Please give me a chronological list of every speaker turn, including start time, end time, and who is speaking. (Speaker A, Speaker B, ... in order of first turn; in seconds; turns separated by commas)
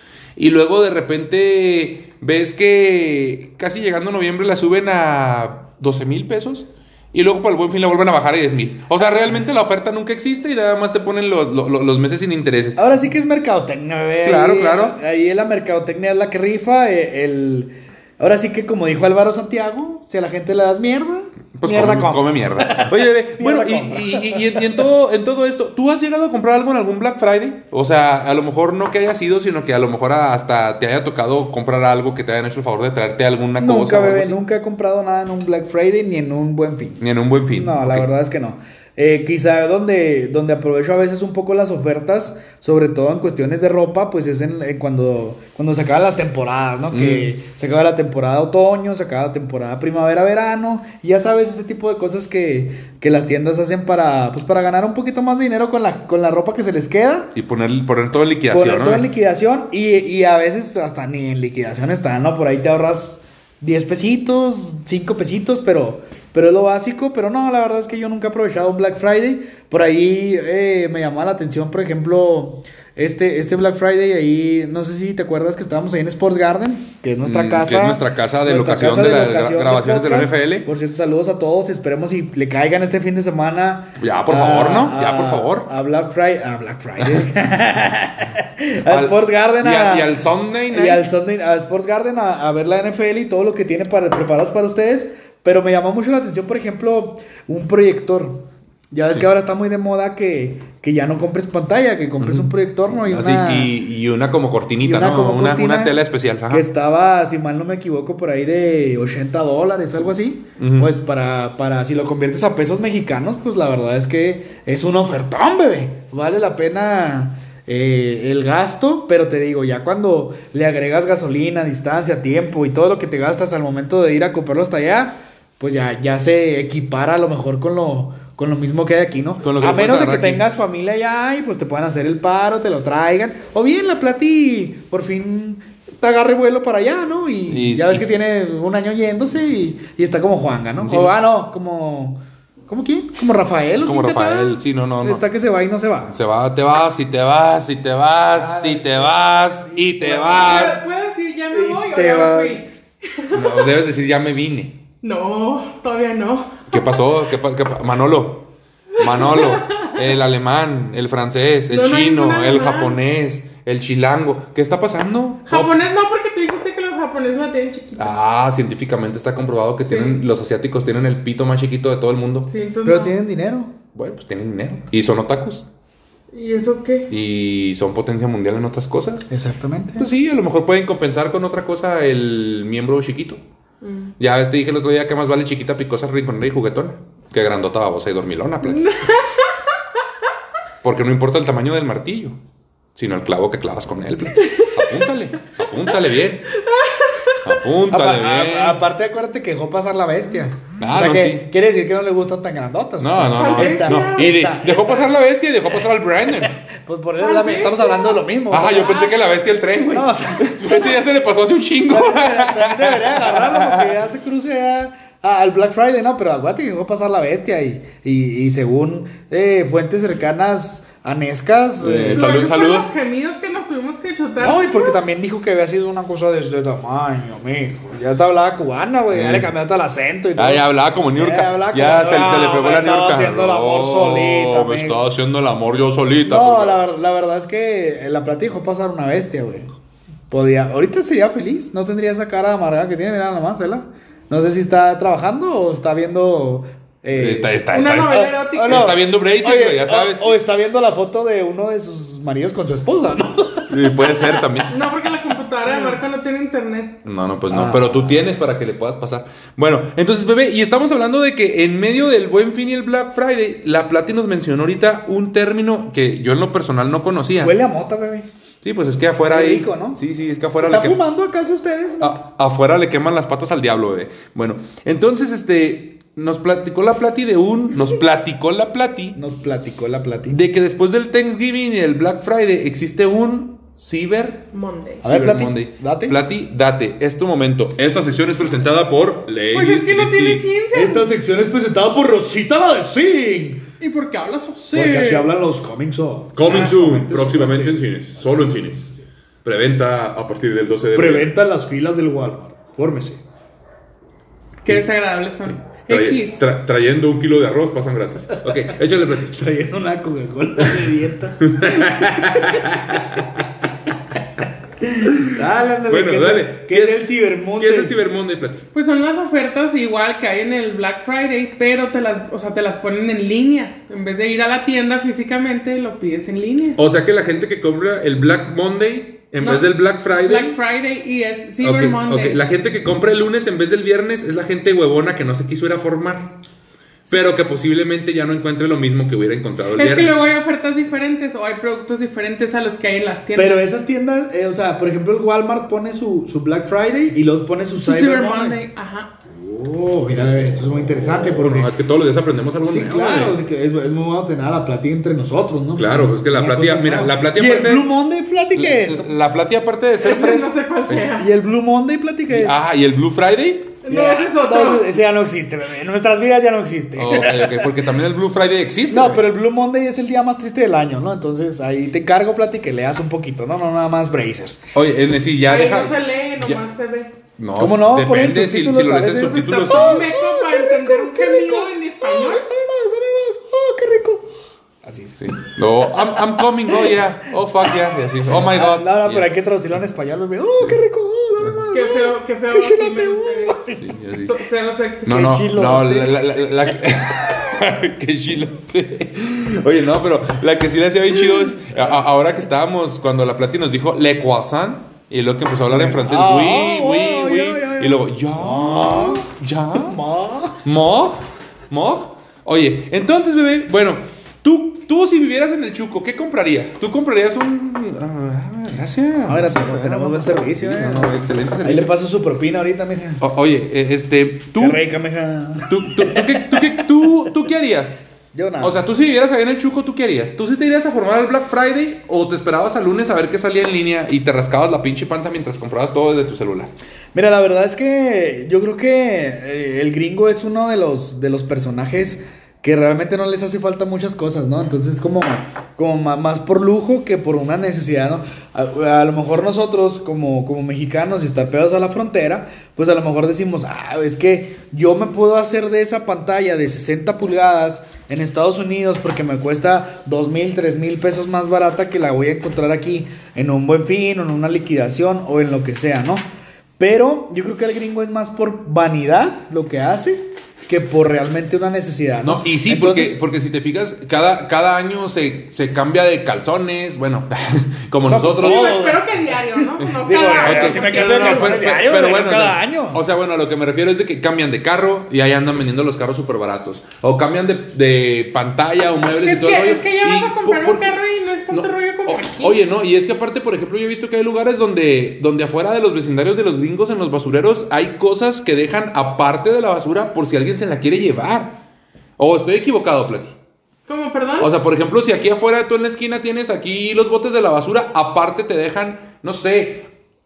Speaker A: 0.3-12.8, Speaker B: 12.8-24.8, Speaker A: 14.2-15.0, Speaker A: 21.6-34.4, Speaker B: 33.6-57.3, Speaker A: 37.0-38.1, Speaker A: 46.9-47.3, Speaker A: 57.3-59.1, Speaker B: 58.5-90.2, Speaker A: 77.2-80.7, Speaker A: 84.0-85.7, Speaker A: 87.0-87.2, Speaker A: 88.9-91.1, Speaker B: 90.7-103.7, Speaker A: 102.2-106.7, Speaker B: 104.8-106.0, Speaker B: 106.5-146.1, Speaker A: 110.6-110.9, Speaker A: 129.4-130.4, Speaker A: 137.5-138.1, Speaker A: 140.8-141.1, Speaker A: 143.8-145.2, Speaker A: 146.1-150.8, Speaker B: 148.3-150.7, Speaker C: 150.3-153.7, Speaker B: 151.5-152.6, Speaker A: 153.3-154.8, Speaker C: 155.0-156.9, Speaker A: 156.7-158.5, Speaker A: 159.0-165.8, Speaker C: 159.0-160.0, Speaker C: 161.7-162.9, Speaker C: 165.5-168.1, Speaker A: 168.0-172.5, Speaker C: 169.9-170.2, Speaker C: 172.5-173.2, Speaker B: 172.8-173.7, Speaker A: 173.9-175.7, Speaker C: 176.3-177.1, Speaker A: 177.1-179.3, Speaker B: 179.3-180.1, Speaker A: 180.0-183.4, Speaker C: 183.8-184.1, Speaker A: 184.2-188.9, Speaker C: 188.6-189.7, Speaker A: 190.8-192.4, Speaker A: 192.9-196.5, Speaker C: 194.3-195.1, Speaker C: 196.5-197.5, Speaker A: 197.4-198.8, Speaker B: 197.9-205.0, Speaker A: 200.8-201.4, Speaker A: 203.0-206.5, Speaker C: 203.3-204.7, Speaker B: 206.5-209.0, Speaker C: 207.2-209.2, Speaker A: 208.5-214.0, Speaker B: 209.9-211.0, Speaker B: 211.9-222.2, Speaker A: 221.8-222.9, Speaker C: 222.1-225.0, Speaker B: 224.4-235.0, Speaker A: 229.1-229.5, Speaker A: 230.3-236.8, Speaker B: 236.2-239.7, Speaker B: 240.3-253.9, Speaker A: 247.1-250.3, Speaker C: 247.7-248.9, Speaker A: 253.7-254.8, Speaker C: 254.7-257.0, Speaker A: 257.0-267.5, Speaker B: 257.5-258.2, Speaker B: 267.4-268.3, Speaker A: 268.6-271.0, Speaker B: 269.3-270.0, Speaker B: 270.6-272.1, Speaker A: 272.0-279.2, Speaker B: 279.1-280.4, Speaker A: 280.3-284.4, Speaker C: 284.5-285.0, Speaker A: 285.0-290.4, Speaker B: 285.0-286.2, Speaker C: 289.5-291.1, Speaker B: 290.7-293.6, Speaker C: 293.8-295.3, Speaker B: 294.7-297.8, Speaker A: 296.3-298.9, Speaker A: 299.4-301.3, Speaker B: 300.9-303.2, Speaker C: 304.6-306.4, Speaker A: 305.5-309.4, Speaker B: 308.6-313.2, Speaker A: 311.4-313.3, Speaker B: 314.8-317.9, Speaker A: 315.9-318.6, Speaker C: 318.7-326.8, Speaker A: 326.8-330.6, Speaker C: 329.4-332.4, Speaker A: 331.6-336.3, Speaker A: 337.1-340.2, Speaker C: 339.7-343.7, Speaker B: 343.3-348.6, Speaker C: 347.8-349.1, Speaker B: 349.3-351.7, Speaker A: 350.1-353.4, Speaker B: 352.6-359.1, Speaker A: 355.7-357.9, Speaker A: 358.5-361.1, Speaker C: 360.0-361.3, Speaker B: 361.2-362.6, Speaker A: 362.3-363.8, Speaker C: 363.8-364.9, Speaker B: 363.9-367.7, Speaker A: 366.9-369.2, Speaker B: 368.9-374.6, Speaker A: 374.7-376.6, Speaker C: 375.5-377.1, Speaker A: 377.4-380.1, Speaker B: 377.6-384.3, Speaker C: 379.3-382.4, Speaker B: 384.8-385.2, Speaker A: 385.2-389.3, Speaker B: 385.9-387.0, Speaker B: 387.7-393.9, Speaker C: 391.7-393.7, Speaker A: 393.8-394.4, Speaker C: 394.3-395.3, Speaker A: 395.0-410.0, Speaker B: 395.1-397.0, Speaker B: 405.7-410.6, Speaker A: 410.6-421.9, Speaker B: 419.2-423.2, Speaker A: 423.2-424.8, Speaker B: 424.6-426.8, Speaker A: 425.7-427.9, Speaker B: 428.3-428.8, Speaker A: 428.6-436.7, Speaker B: 437.1-466.2, Speaker B: 466.8-473.2, Speaker A: 472.2-478.8, Speaker B: 478.1-483.0, Speaker C: 478.3-481.6, Speaker A: 480.4-490.9, Speaker C: 489.2-492.6, Speaker A: 491.5-501.6, Speaker A: 502.2-503.3, Speaker C: 503.9-504.5, Speaker A: 504.4-509.9